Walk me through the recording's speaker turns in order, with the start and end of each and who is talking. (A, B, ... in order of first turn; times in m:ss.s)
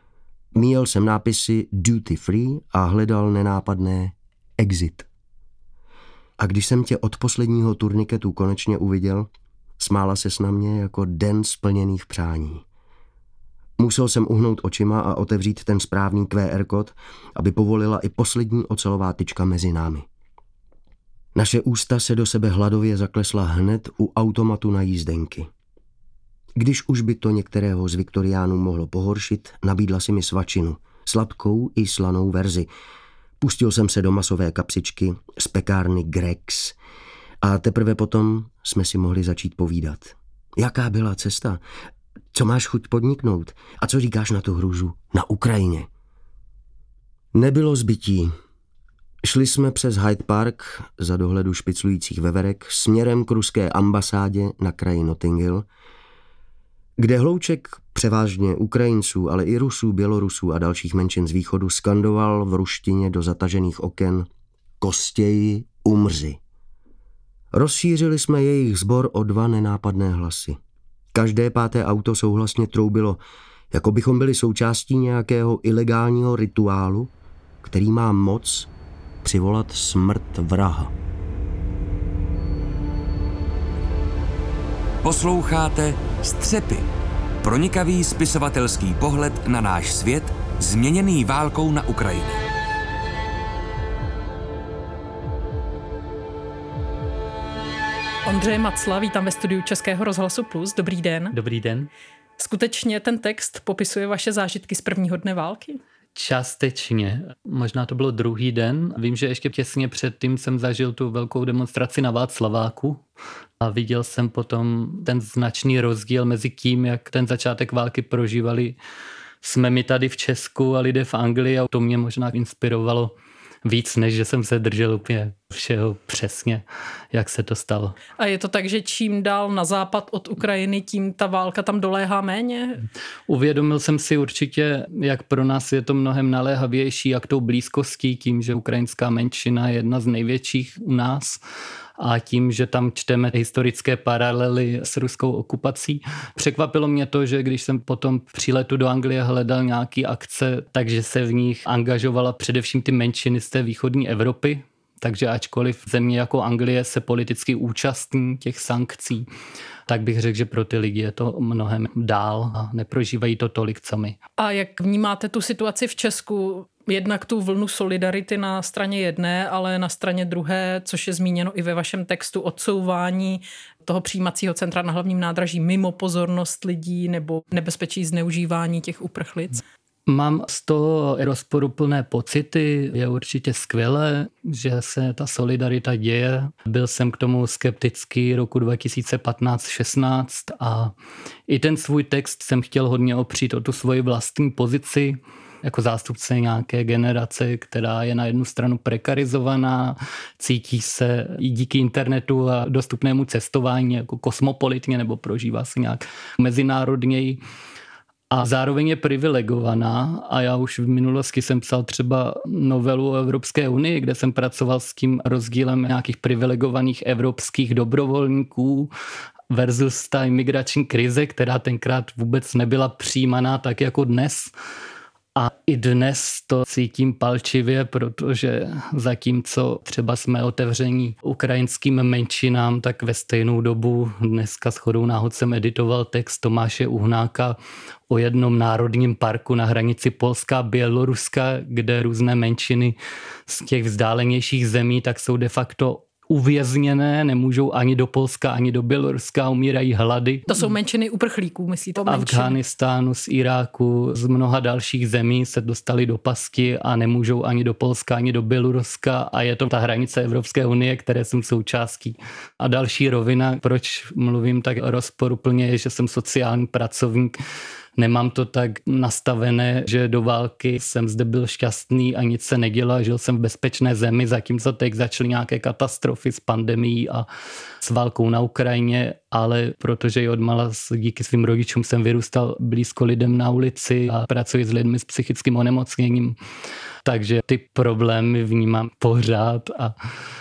0:00.5-0:05.1 A
0:06.4-0:12.6 A
0:13.8-0:20.0 A
0:21.3-0:25.5 A
0:26.6-0:32.7 A
0:33.4-0:36.8 A
0:37.4-0:41.6 A
0:42.3-0:45.9 A
0:47.3-0:48.3 A
0:49.2-0:55.6 A
0:57.0-1:04.3 A
1:04.8-1:06.4 A
1:07.5-1:10.6 A
1:11.1-1:13.2 A
1:13.7-1:17.1 A
1:17.6-1:18.7 A
1:19.2-1:20.9 A
1:25.0-1:26.9 B
1:27.4-1:32.4 B
1:38.2-1:41.3 C
1:41.3-1:41.9 D
1:42.4-1:45.8 C
1:46.1-1:53.0 D
1:53.6-1:58.8 D
1:59.4-2:03.1 D
2:03.6-2:08.0 D
2:08.2-2:12.8 C
2:13.3-2:21.4 D
2:22.0-2:39.2 D
2:39.9-2:44.2 D
2:44.4-2:59.6 C
3:00.1-3:10.9 D
3:11.5-3:27.4 D
3:28.3-3:38.9 D
3:39.5-3:44.5 D
3:45.4-3:57.6 D
3:58.1-4:03.0 D
4:03.5-4:10.6 D
4:10.5-4:12.6 C
4:12.0-4:27.4 D
4:28.0-4:37.2 D
4:37.8-4:46.4 D
4:47.0-4:49.9 D